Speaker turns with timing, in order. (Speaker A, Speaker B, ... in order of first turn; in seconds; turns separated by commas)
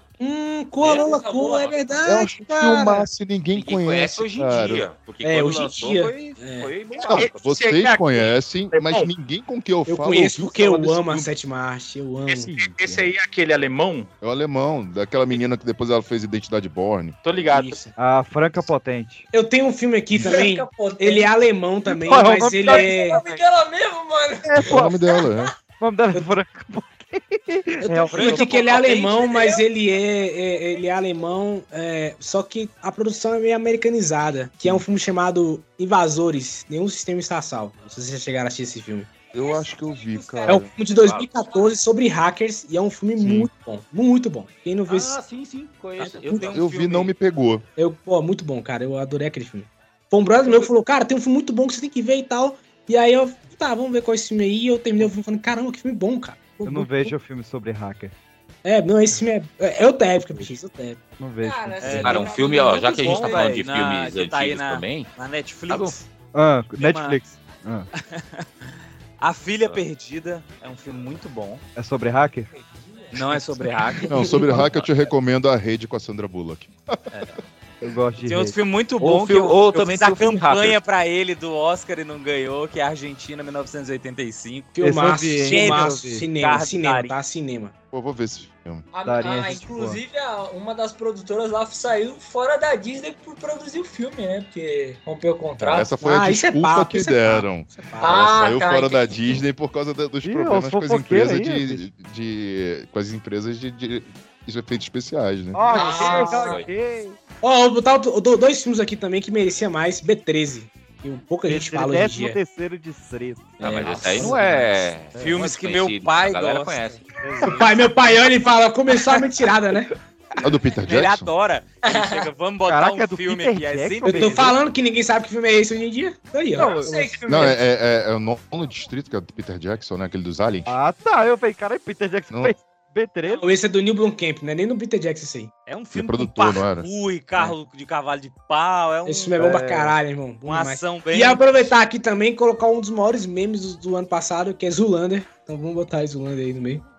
Speaker A: 0.2-3.0, Speaker B: 0.8-1.8, Speaker C: 2.0-4.9, Speaker D: 3.5-7.5, Speaker A: 5.2-6.8, Speaker C: 7.0-11.3, Speaker E: 7.1-9.1, Speaker A: 9.9-12.5, Speaker E: 12.3-14.1, Speaker F: 12.4-13.0, Speaker C: 14.2-17.2, Speaker E: 17.2-17.9, Speaker A: 17.5-17.9, Speaker F: 18.0-19.3, Speaker A: 19.3-23.2, Speaker B: 20.2-21.3, Speaker F: 22.1-23.3, Speaker B: 22.6-25.5, Speaker F: 24.4-25.0, Speaker C: 24.6-25.5, Speaker F: 25.8-28.5, Speaker A: 27.8-39.1, Speaker B: 28.2-29.6, Speaker C: 39.3-40.7, Speaker B: 39.4-40.6, Speaker A: 40.5-45.2, Speaker D: 40.9-41.3, Speaker C: 43.2-43.5, Speaker D: 44.9-47.1, Speaker A: 46.0-46.6, Speaker C: 46.5-47.6, Speaker A: 47.8-57.1, Speaker D: 50.4-50.7, Speaker F: 56.6-58.1, Speaker A: 58.6-61.0, Speaker F: 61.2-62.3, Speaker B: 61.4-63.6, Speaker G: 61.8-66.0, Speaker D: 61.9-65.1, Speaker D: 65.7-66.0, Speaker F: 66.3-67.9, Speaker G: 66.8-67.2, Speaker G: 68.0-68.5, Speaker G: 69.2-71.6, Speaker F: 71.8-72.5, Speaker G: 73.1-74.2, Speaker C: 74.1-77.2, Speaker D: 74.5-74.9, Speaker G: 77.1-77.4, Speaker F: 77.8-78.6, Speaker G: 78.2-84.7, Speaker D: 79.0-80.8, Speaker A: 84.7-87.7, Speaker F: 84.8-86.2, Speaker G: 85.4-87.2, Speaker C: 87.9-88.8, Speaker B: 88.9-96.0, Speaker F: 89.0-90.0, Speaker C: 95.6-105.7, Speaker A: 96.0-98.2, Speaker B: 98.0-99.4, Speaker F: 100.2-101.9, Speaker F: 105.5-107.2, Speaker B: 105.7-106.6, Speaker D: 105.9-106.7, Speaker A: 107.4-112.4, Speaker F: 111.5-115.4, Speaker D: 113.6-117.7, Speaker G: 113.6-114.4, Speaker A: 114.0-114.3, Speaker G: 115.1-117.7, Speaker F: 117.2-117.6, Speaker A: 117.4-119.9, Speaker C: 120.4-121.3, Speaker G: 120.8-124.5, Speaker B: 121.8-122.3, Speaker F: 122.7-124.5, Speaker A: 124.0-127.1, Speaker F: 126.5-127.0, Speaker B: 126.5-127.6, Speaker C: 127.3-130.7, Speaker F: 130.7-133.4, Speaker A: 133.3-135.5, Speaker G: 135.7-139.3, Speaker C: 135.9-136.9, Speaker A: 139.1-146.8, Speaker F: 139.4-140.0, Speaker G: 140.4-141.7